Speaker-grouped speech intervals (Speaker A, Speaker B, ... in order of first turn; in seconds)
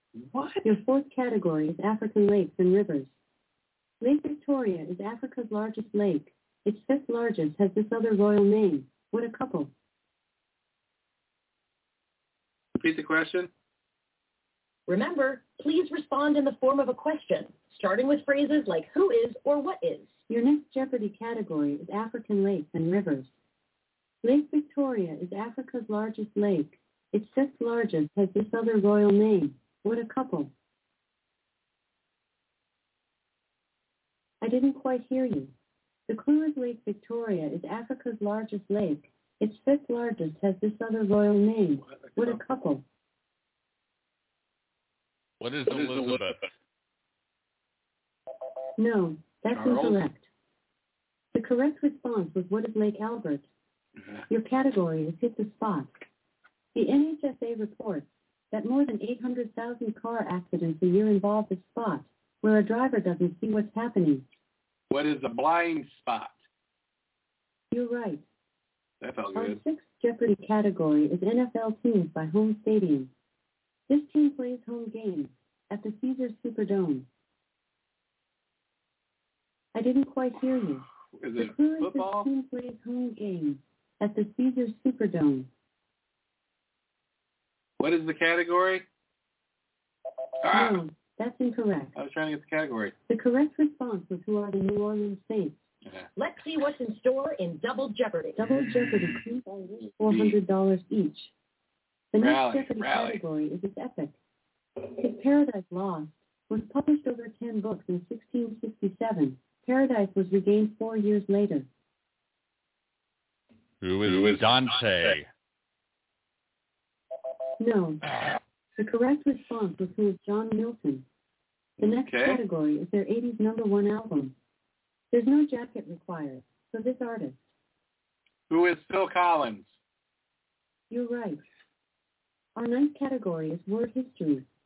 Speaker A: 0.1-0.7, 12.7-13.5, 41.8-42.4, 49.5-50.0, 64.9-66.4, 69.0-69.6, 81.2-82.3, 87.8-88.9, 90.4-90.8, 91.9-92.9, 100.0-100.4, 102.2-103.2, 121.8-122.4, 128.5-129.7
Speaker B: 0.6-3.1, 4.0-9.7, 20.3-23.3, 24.2-30.5, 34.4-35.5, 36.1-42.8, 48.8-50.3, 51.3-53.5, 54.3-56.0, 56.7-64.2, 67.7-68.2, 69.3-73.1, 73.9-77.1, 79.7-85.5, 90.5-91.9, 93.1-95.7, 98.4-101.3, 102.1-104.2, 104.9-111.7, 117.6-118.0, 118.8-121.0, 121.8-124.3, 125.1-127.5, 130.9-131.4, 132.6-134.4
Speaker C: 14.9-20.1, 96.2-98.5
Speaker D: 45.4-46.5, 113.8-115.3